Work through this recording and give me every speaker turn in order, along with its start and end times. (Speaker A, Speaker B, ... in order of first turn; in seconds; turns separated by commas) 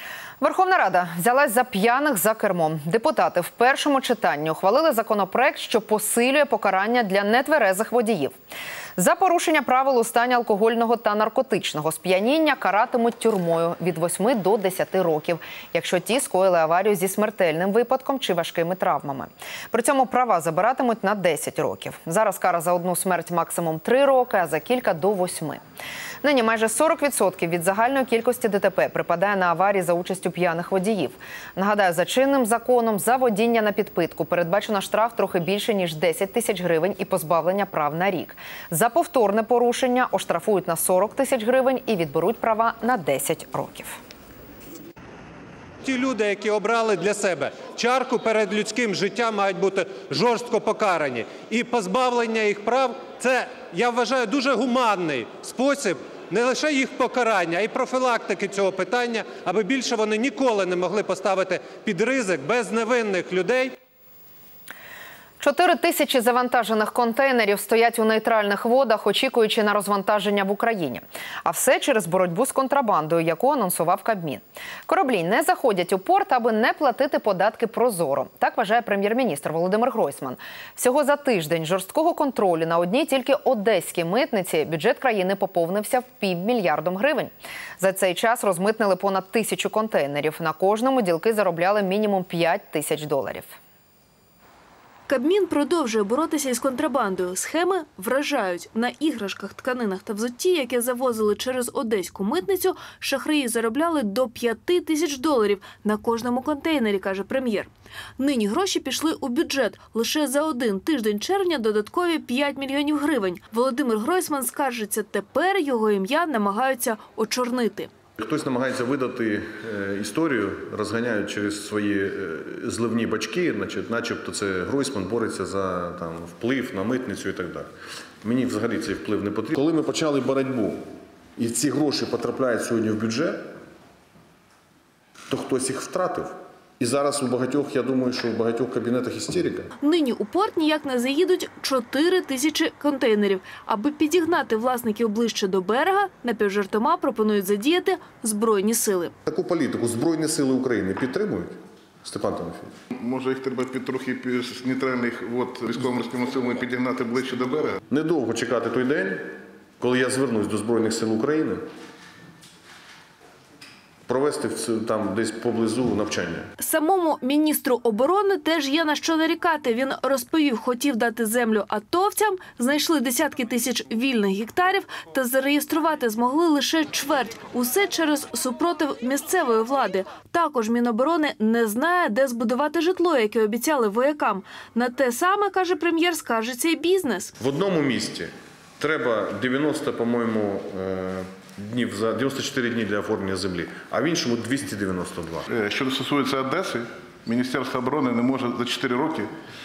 Speaker A: 0.4-8.4, Speaker A: 9.0-25.6, Speaker A: 26.2-44.0, Speaker B: 45.8-63.8, Speaker A: 65.4-93.6, Speaker C: 95.1-117.9, Speaker D: 118.2-127.7, Speaker D: 128.2-133.5, Speaker D: 135.3-139.7, Speaker C: 139.8-149.1, Speaker D: 149.3-152.7, Speaker E: 152.9-157.8, Speaker D: 157.9-161.6, Speaker D: 164.1-166.5, Speaker C: 166.6-187.3, Speaker D: 187.4-195.5, Speaker E: 195.5-199.3